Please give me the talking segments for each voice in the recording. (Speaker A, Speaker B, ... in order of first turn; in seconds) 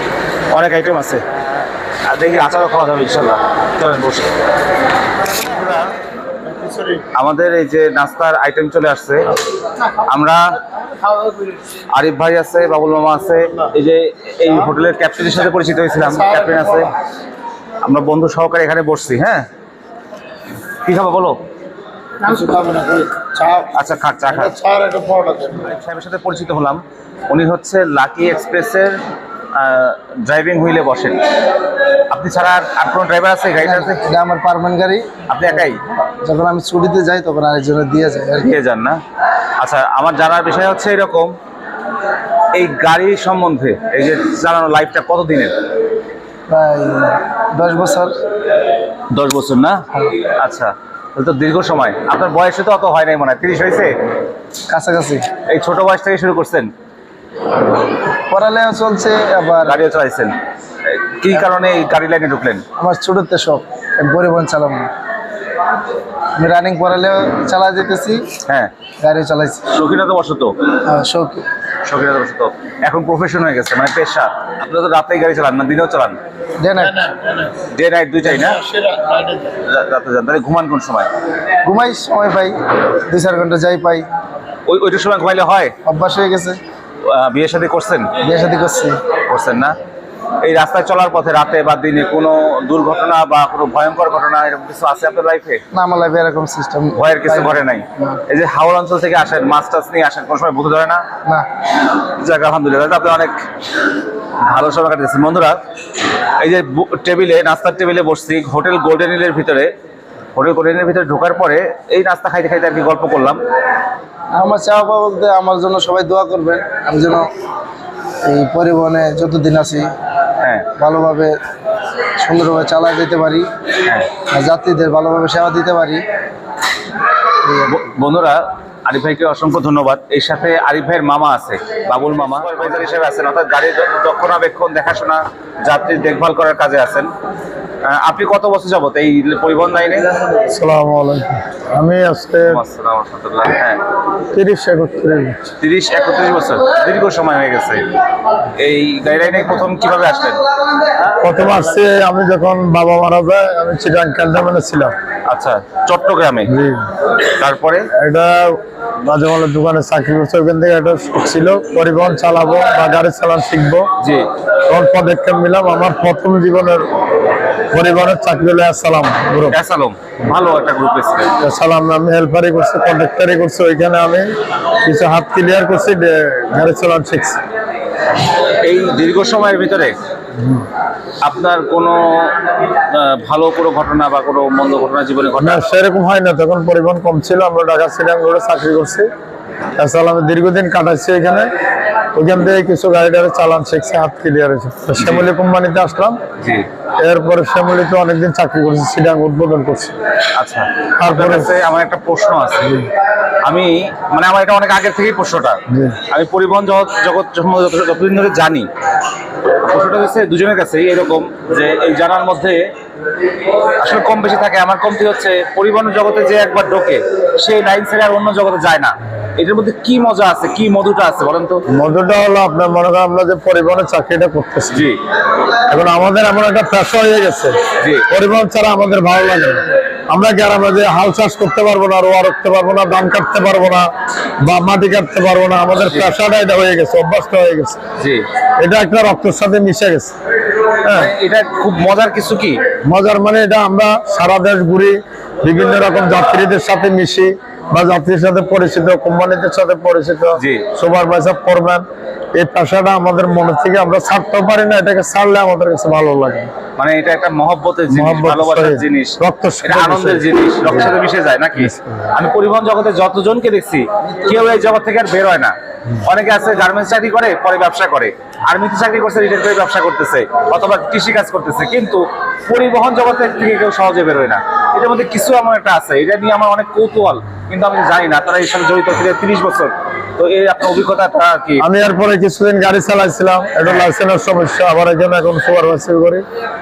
Speaker A: 0.5-1.4, 2.1-4.3, 7.1-9.3, 10.1-10.5, 11.9-16.9, 17.8-19.4, 20.8-21.4, 23.7-24.6, 25.6-29.0, 29.5-31.2, 32.1-34.0, 35.3-35.8, 38.4-39.0, 39.6-41.4, 42.5-45.5, 49.1-53.9, 55.5-56.7, 59.6-60.3, 60.9-62.6, 68.5-68.7, 69.7-70.5, 71.8-76.2, 77.6-78.6, 79.6-81.1, 84.7-85.7, 87.0-88.1, 89.3-89.8, 90.4-95.6, 96.9-101.0, 102.2-103.3, 104.5-105.6, 106.4-109.7, 110.4-113.4, 120.4-120.7, 127.7-137.1, 137.8-140.1, 142.5-143.8, 145.6-147.8, 148.6-150.4, 155.3-156.5, 157.3-157.9, 164.0-164.3, 169.5-171.3, 178.6-179.9, 181.2-185.7, 195.0-195.3, 196.4-196.7, 200.3-202.8, 203.4-208.7, 209.6-212.6, 213.8-221.6, 224.7-225.0, 227.8-228.1, 235.8-236.1, 238.0-238.2, 240.9-242.6, 250.4-250.7, 256.8-281.6, 283.6-283.9
Speaker B: 6.6-7.0, 22.2-23.7, 24.4-25.6, 78.5-79.2, 140.5-142.6, 144.3-145.5, 151.2-154.9, 156.5-156.8, 158.0-163.9, 164.7-166.9, 167.7-169.6, 171.4-174.3, 174.8-177.4, 185.4-189.1, 189.8-191.5, 192.2-196.2, 197.0-199.9, 201.0-201.5, 205.7-206.0, 221.7-224.9, 225.7-227.6, 228.1-233.9, 234.4-237.8, 238.6-240.1, 240.9-241.1, 242.9-251.8, 252.4-256.5, 257.9-261.0, 261.6-262.1, 281.6-286.2
Speaker C: 33.6-35.1, 35.6-38.5, 46.5-48.1, 54.7-55.3, 58.3-59.8, 62.8-64.9, 66.4-68.3, 69.0-69.6, 70.9-71.5, 76.6-77.1, 81.7-84.1, 85.8-86.6, 88.2-89.0, 95.7-98.0, 114.3-117.3, 118.2-119.9, 120.8-121.4, 122.2-123.5, 124.3-126.0, 127.4-127.8